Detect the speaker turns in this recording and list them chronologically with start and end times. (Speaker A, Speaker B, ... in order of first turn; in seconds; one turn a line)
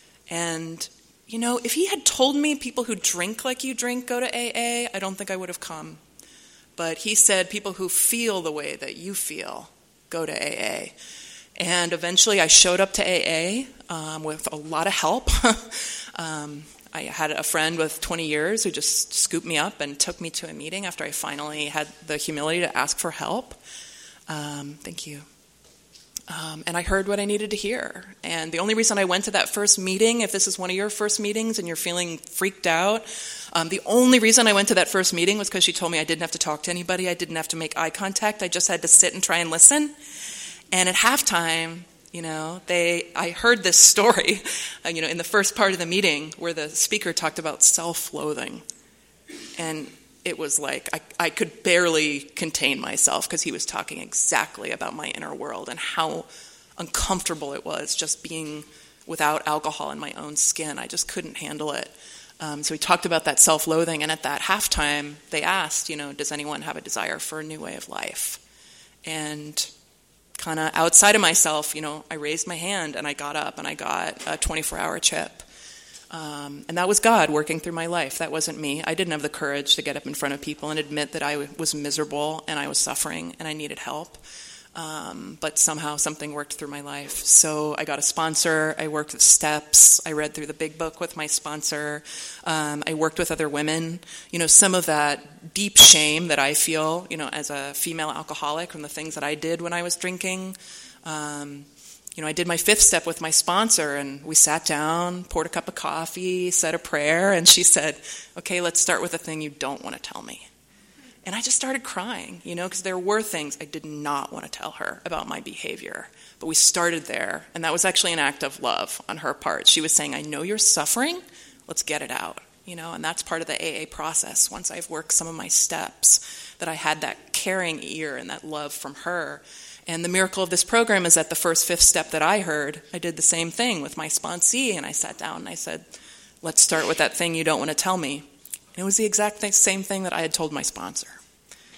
Speaker A: 0.3-6.0
Speaker A: 6.8-10.9
Speaker A: 11.6-23.6
Speaker A: 24.3-25.2
Speaker A: 26.3-39.9
Speaker A: 40.7-48.6
Speaker A: 49.6-68.4
Speaker A: 69.0-69.7
Speaker A: 70.4-75.4
Speaker A: 76.1-84.2
Speaker A: 84.8-110.5
Speaker A: 111.2-135.8
Speaker A: 136.4-141.2